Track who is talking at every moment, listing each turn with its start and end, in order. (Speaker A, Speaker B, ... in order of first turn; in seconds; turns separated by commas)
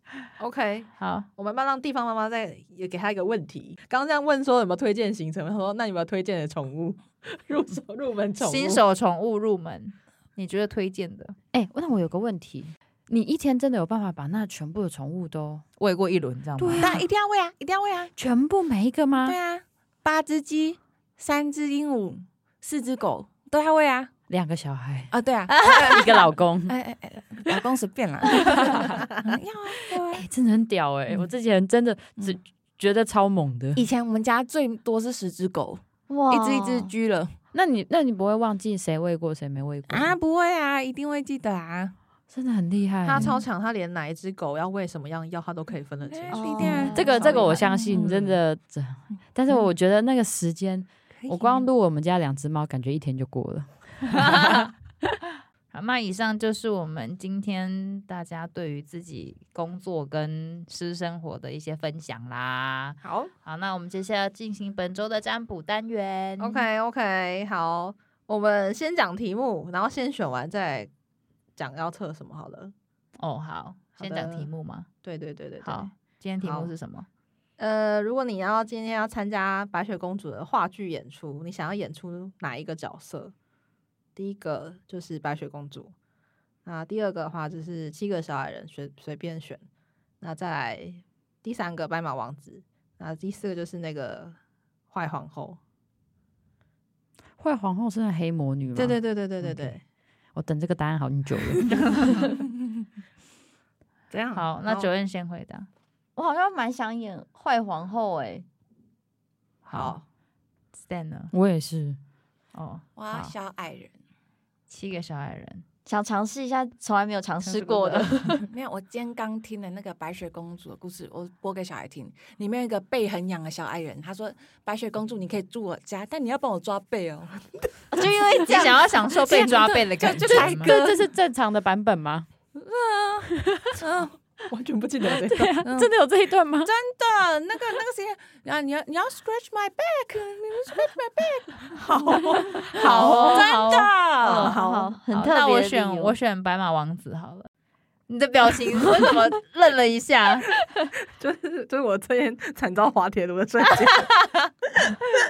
Speaker A: 0.4-8.8, Speaker B: 1.0-1.3, Speaker B: 8.4-11.3, Speaker C: 11.5-15.6, Speaker B: 15.8-17.0, Speaker C: 16.6-17.0, Speaker D: 16.8-18.1, Speaker C: 18.1-19.4, Speaker D: 19.2-24.1, Speaker C: 24.3-26.7, Speaker D: 25.1-30.2, Speaker B: 25.5-25.9, Speaker C: 28.3-28.9, Speaker C: 30.0-33.8, Speaker D: 33.8-37.3, Speaker E: 36.1-36.9, Speaker C: 37.5-40.1, Speaker D: 39.9-41.9, Speaker C: 42.3-43.4, Speaker A: 43.0-48.3, Speaker D: 46.0-47.6, Speaker E: 46.3-47.6, Speaker B: 46.6-47.0, Speaker C: 46.9-54.7, Speaker D: 51.2-51.5, Speaker B: 54.1-54.7, Speaker B: 55.7-66.7, Speaker A: 63.0-63.3, Speaker A: 66.4-70.9, Speaker A: 71.5-72.7, Speaker B: 73.2-74.9, Speaker A: 74.0-74.5, Speaker A: 75.0-75.9, Speaker B: 75.6-77.1, Speaker A: 76.4-76.7, Speaker A: 77.6-83.3, Speaker A: 84.2-85.9, Speaker A: 86.6-89.6, Speaker A: 90.2-94.3, Speaker A: 94.9-95.6, Speaker C: 97.4-99.7, Speaker A: 98.7-99.8, Speaker C: 100.3-101.8, Speaker B: 101.7-102.2, Speaker D: 104.1-104.8, Speaker A: 104.1-104.8, Speaker B: 104.3-105.7, Speaker E: 106.2-108.5, Speaker B: 109.7-110.0, Speaker A: 109.7-110.0, Speaker B: 110.8-111.3, Speaker C: 111.3-112.0, Speaker B: 112.5-113.3, Speaker D: 113.0-113.9, Speaker B: 114.7-115.6, Speaker E: 115.8-118.4, Speaker B: 117.6-118.2, Speaker D: 118.4-127.5, Speaker E: 127.9-129.8, Speaker B: 128.3-130.8, Speaker D: 129.2-131.0, Speaker C: 130.3-132.3, Speaker A: 132.7-133.2, Speaker C: 133.3-133.8, Speaker A: 133.8-135.7, Speaker C: 135.0-136.7, Speaker D: 136.6-144.5, Speaker A: 141.7-143.5, Speaker B: 142.7-143.9, Speaker E: 144.2-146.2, Speaker A: 144.2-144.9, Speaker B: 145.1-147.5, Speaker B: 148.1-150.5, Speaker A: 151.1-155.1